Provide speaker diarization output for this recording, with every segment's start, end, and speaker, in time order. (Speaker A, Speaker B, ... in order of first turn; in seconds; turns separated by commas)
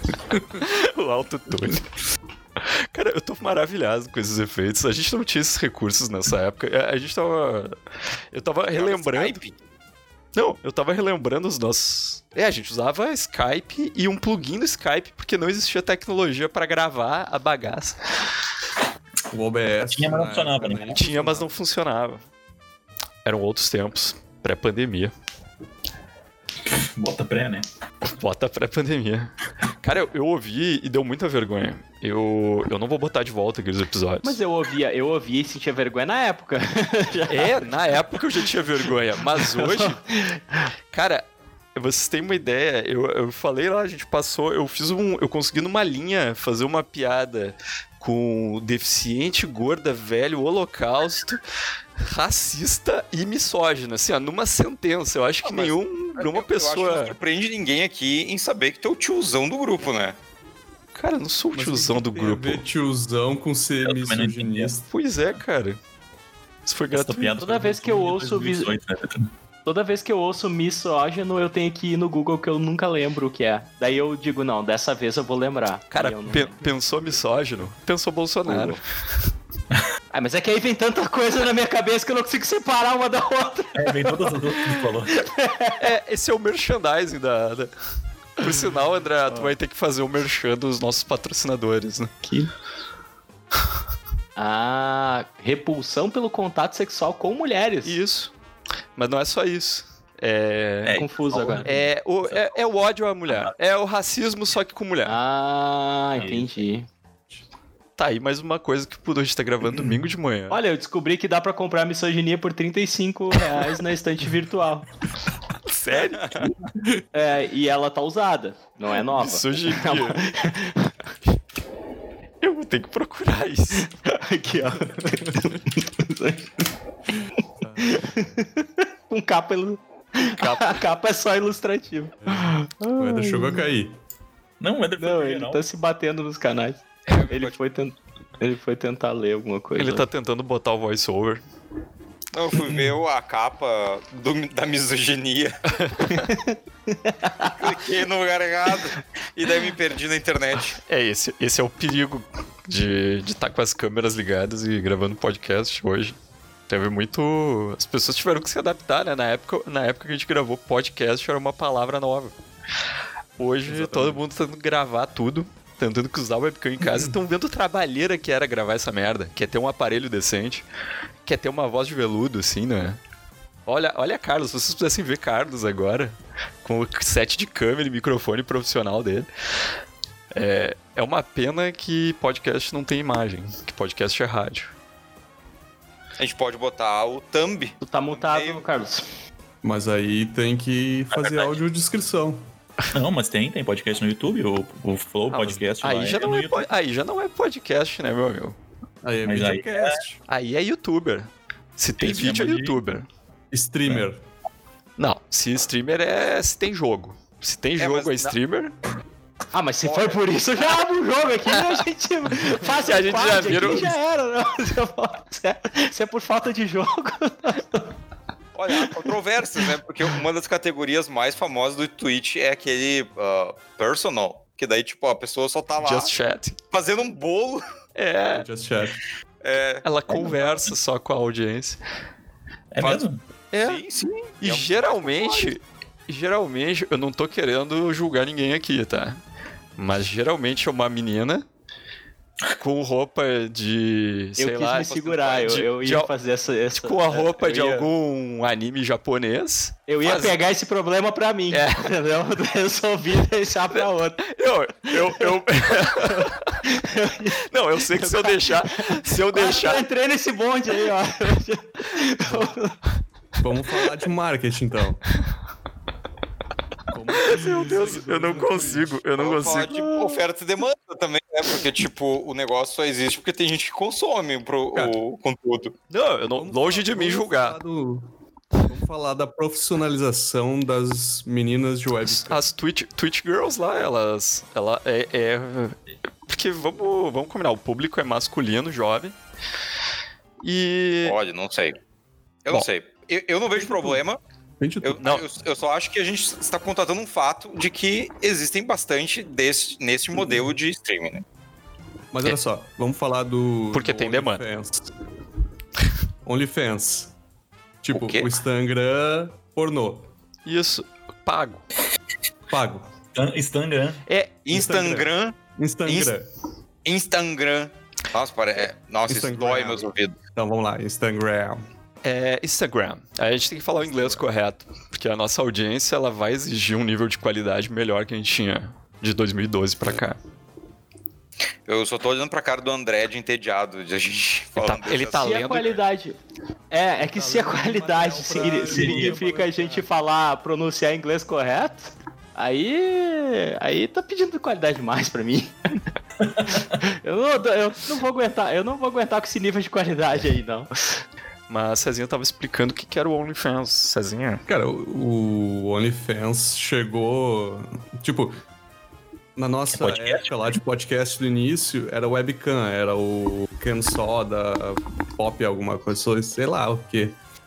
Speaker A: 0.5-1.9, Speaker A: 2.6-7.8, Speaker A: 8.3-9.4, Speaker B: 8.7-9.6, Speaker A: 10.3-18.0, Speaker C: 19.3-21.5, Speaker D: 19.9-21.0, Speaker A: 20.9-22.2, Speaker A: 23.2-25.1, Speaker D: 26.7-27.7, Speaker A: 28.1-34.4, Speaker E: 34.2-37.7, Speaker A: 37.3-40.0, Speaker E: 39.4-40.6, Speaker A: 40.9-51.4, Speaker A: 52.0-57.2, Speaker B: 55.4-60.2, Speaker A: 61.0-62.6, Speaker C: 61.5-64.9, Speaker D: 63.8-64.7, Speaker A: 64.9-65.8, Speaker A: 66.7-67.4, Speaker D: 66.9-69.3, Speaker E: 67.4-68.7, Speaker E: 69.7-76.6, Speaker A: 75.9-78.8, Speaker E: 80.1-84.3, Speaker D: 83.8-85.1, Speaker E: 85.1-85.8, Speaker A: 85.8-87.7, Speaker A: 88.4-92.1, Speaker E: 92.2-92.5, Speaker E: 94.4-98.0, Speaker A: 97.8-98.3, Speaker A: 99.0-101.0, Speaker D: 100.8-102.5, Speaker E: 100.9-101.7, Speaker A: 101.7-105.2, Speaker D: 103.3-103.5, Speaker E: 105.0-106.9, Speaker D: 106.2-106.5, Speaker A: 108.0-110.6, Speaker D: 109.7-110.0, Speaker E: 110.5-114.9, Speaker A: 115.7-116.5, Speaker B: 116.1-116.5, Speaker E: 117.1-120.9, Speaker A: 119.1-120.5, Speaker A: 122.4-123.9, Speaker E: 123.8-126.5, Speaker E: 127.8-133.7, Speaker A: 130.2-130.8, Speaker C: 132.3-134.0, Speaker D: 134.6-135.7, Speaker E: 135.0-140.1, Speaker B: 137.1-137.6, Speaker A: 139.8-141.4, Speaker B: 142.3-145.6, Speaker A: 145.8-146.1, Speaker E: 146.1-147.6, Speaker B: 147.6-150.8, Speaker A: 150.9-156.2, Speaker A: 156.7-162.3, Speaker A: 163.4-170.7, Speaker C: 163.7-164.2, Speaker C: 166.8-167.2, Speaker A: 171.2-173.0, Speaker A: 173.7-179.3, Speaker A: 180.3-184.7, Speaker B: 186.2-188.7, Speaker E: 187.8-189.1, Speaker C: 189.6-192.4, Speaker D: 192.9-196.7, Speaker A: 195.3-198.6, Speaker C: 199.0-200.2, Speaker D: 199.2-200.0, Speaker A: 200.3-203.1, Speaker D: 202.0-202.8, Speaker C: 203.5-204.2, Speaker A: 205.0-208.8, Speaker B: 207.8-208.3, Speaker E: 209.5-217.9, Speaker B: 209.8-210.2, Speaker A: 212.5-213.9, Speaker B: 218.6-226.1, Speaker A: 225.8-226.6, Speaker B: 226.7-227.6, Speaker A: 228.0-228.5, Speaker C: 228.3-229.0, Speaker B: 229.4-229.8, Speaker A: 229.8-231.8, Speaker D: 230.1-230.7, Speaker D: 232.7-233.2, Speaker A: 233.5-233.8, Speaker B: 233.6-235.5, Speaker A: 234.4-239.2, Speaker A: 239.8-241.4, Speaker A: 242.6-246.1, Speaker E: 244.4-247.9, Speaker B: 244.9-245.5, Speaker A: 246.7-250.4, Speaker E: 249.9-254.2, Speaker A: 251.5-251.9, Speaker A: 253.7-256.6, Speaker E: 254.9-262.7, Speaker A: 257.5-259.9, Speaker C: 263.4-265.0, Speaker C: 266.9-269.0, Speaker A: 267.2-269.9, Speaker B: 269.2-275.7, Speaker A: 275.9-277.6, Speaker C: 276.4-278.1, Speaker C: 278.6-282.4, Speaker A: 282.0-289.1, Speaker A: 290.4-291.2, Speaker B: 291.1-291.8, Speaker B: 292.4-294.2, Speaker C: 293.6-294.0, Speaker C: 294.6-295.0, Speaker B: 294.8-301.2, Speaker A: 295.0-295.2, Speaker C: 302.1-304.9, Speaker A: 303.7-304.4, Speaker C: 306.2-307.1, Speaker C: 307.8-310.1, Speaker B: 307.9-308.3, Speaker A: 310.4-311.6, Speaker C: 312.5-312.9, Speaker D: 313.1-314.0, Speaker A: 314.1-314.4, Speaker B: 314.4-316.1, Speaker C: 314.5-316.3, Speaker B: 316.9-320.2, Speaker C: 319.1-321.6, Speaker A: 322.0-330.2, Speaker B: 331.7-335.3, Speaker A: 334.6-335.8, Speaker E: 335.2-336.2, Speaker E: 336.7-345.6, Speaker C: 337.0-339.9, Speaker D: 338.6-339.1, Speaker D: 346.2-346.8, Speaker E: 346.6-351.0, Speaker A: 351.5-354.4, Speaker C: 354.5-358.4, Speaker C: 359.4-367.2, Speaker D: 359.7-360.6